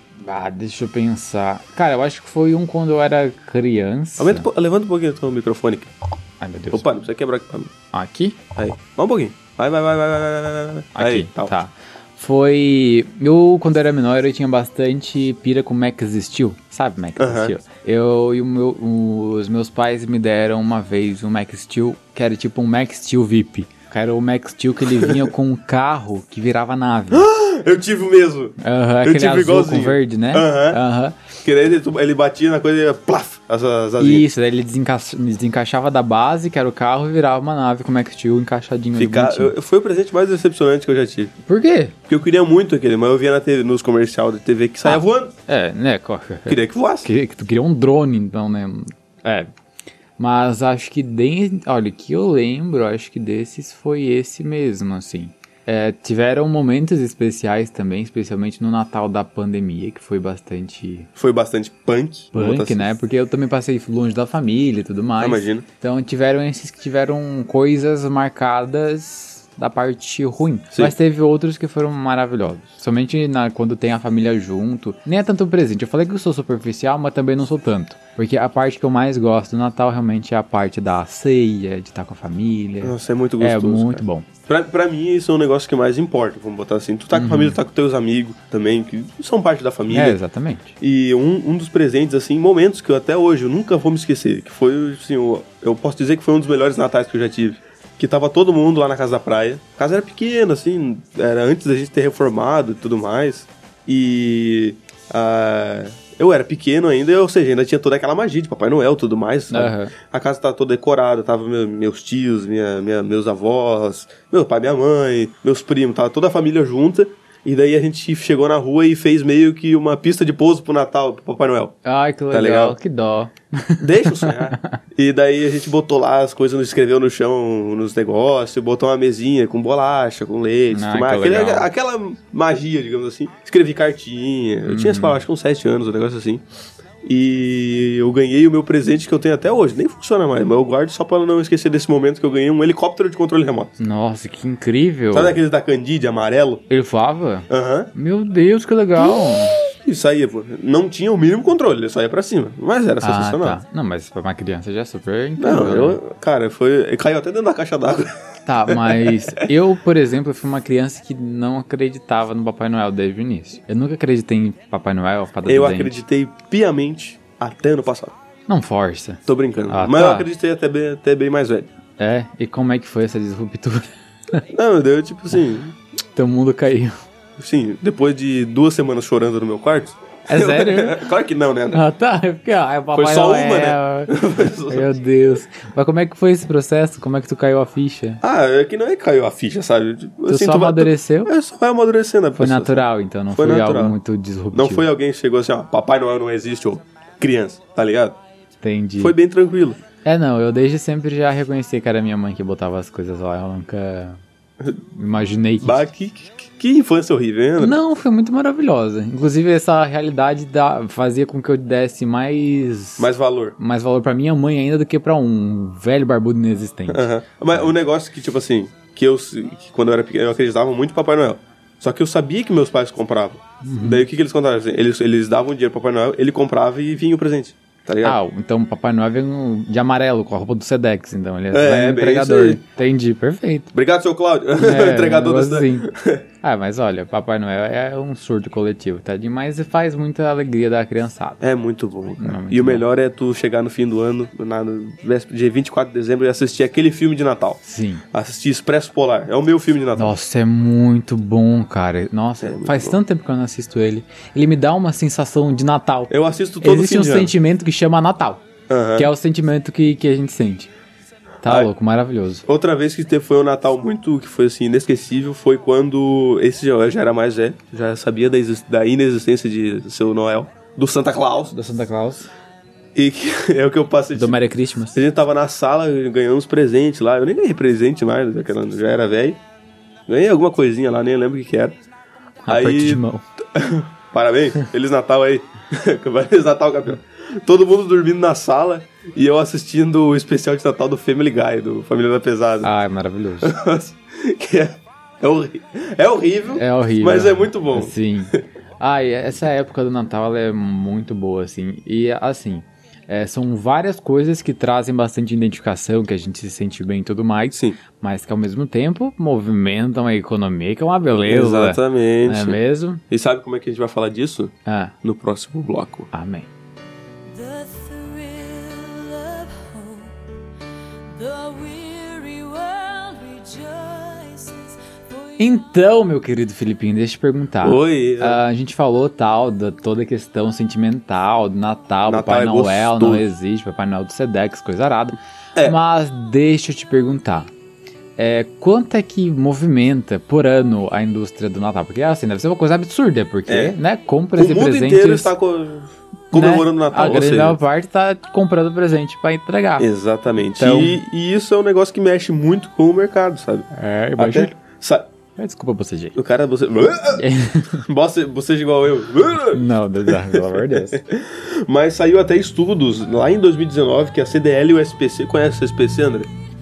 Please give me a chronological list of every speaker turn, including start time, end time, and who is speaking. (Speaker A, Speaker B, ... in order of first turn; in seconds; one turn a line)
Speaker A: 0.2-4.5
Speaker B: 4.2-5.9
Speaker A: 6.4-6.8
Speaker B: 6.7-7.7
Speaker A: 7.9-8.4
Speaker B: 8.5-11.5
Speaker A: 10.9-27.3
Speaker B: 17.2-17.5
Speaker B: 24.9-25.3
Speaker B: 27.1-30.8
Speaker A: 28.6-31.2
Speaker B: 31.4-34.3
Speaker A: 34.0-39.5
Speaker B: 39.0-41.3
Speaker A: 41.4-41.9
Speaker B: 42.1-45.3
Speaker A: 44.8-49.5
Speaker B: 46.5-47.1
Speaker A: 50.2-61.1
Speaker B: 61.1-62.9
Speaker A: 62.3-84.2
Speaker B: 65.2-65.6
Speaker B: 82.8-90.2
Speaker A: 87.1-87.6
Speaker A: 89.9-90.8
Speaker B: 90.8-121.8
Speaker A: 109.5-109.9
Speaker A: 121.8-124.8
Speaker B: 122.3-122.8
Speaker B: 123.8-136.4
Speaker A: 130.7-131.7
Speaker A: 134.7-135.2
Speaker B: 137.0-143.7
Speaker A: 143.8-145.4
Speaker B: 145.1-146.6
Speaker A: 146.7-149.6
Speaker B: 147.5-147.9
Speaker B: 149.0-153.6
Speaker A: 153.0-156.0
Speaker B: 155.4-158.1
Speaker A: 158.4-166.0
Speaker B: 158.7-159.4
Speaker B: 165.4-168.2
Speaker A: 168.5-170.3
Speaker B: 169.3-171.7
Speaker A: 172.0-174.4
Speaker B: 174.5-175.7
Speaker A: 176.1-176.9
Speaker B: 177.4-181.8
Speaker A: 180.3-181.0
Speaker A: 181.7-188.2
Speaker B: 182.9-184.9
Speaker B: 188.2-194.0
Speaker A: 190.3-191.3
Speaker A: 192.4-194.8
Speaker B: 194.5-198.2
Speaker A: 198.6-199.2
Speaker B: 199.0-199.8
Speaker A: 200.0-204.2
Speaker A: 204.9-205.9
Speaker B: 205.6-207.8
Speaker A: 207.6-217.7
Speaker B: 213.0-213.6
Speaker B: 216.9-228.2
Speaker A: 223.6-224.1
Speaker A: 228.0-233.7
Speaker B: 231.5-232.6
Speaker B: 233.7-236.2
Speaker A: 234.6-235.9
Speaker A: 236.4-241.4
Speaker B: 241.4-247.6
Speaker A: 242.2-242.8
Speaker A: 247.6-248.0
Speaker B: 248.1-250.1
Speaker A: 249.9-258.4
Speaker B: 252.4-253.0
Speaker B: 256.1-257.3
Speaker B: 258.7-259.1
Speaker A: 258.9-260.7
Speaker A: 261.4-262.4
Speaker B: 261.4-261.7
Speaker B: 262.4-271.5
Speaker A: 271.5-272.3
Speaker B: 272.9-274.4
Speaker A: 274.1-275.0
Speaker B: 274.9-279.4
Speaker B: 280.1-281.8
Speaker A: 282.4-283.2
Speaker B: 282.5-292.7
Speaker A: 292.6-293.5
Speaker B: 293.4-298.4
Speaker A: 296.5-313.0
Speaker B: 311.3-312.6
Speaker B: 313.1-316.1
Speaker A: 314.6-314.9
Speaker A: 316.1-316.5
Speaker C: 317.3-320.2
Speaker C: 321.1-325.6
Speaker A: 325.4-337.5
Speaker B: 327.6-328.4
Speaker B: 332.1-333.2
Speaker A: 338.2-345.3
Speaker B: 343.5-343.8
Speaker B: 344.4-347.6
Speaker A: 346.3-349.9
Speaker B: 349.8-355.1
Speaker A: 350.6-351.0
Speaker A: 353.7-354.5
Speaker A: 355.4-356.2
Speaker B: 356.1-357.2
Speaker A: 357.1-357.8
Speaker B: 357.9-366.3
Speaker A: 359.5-361.0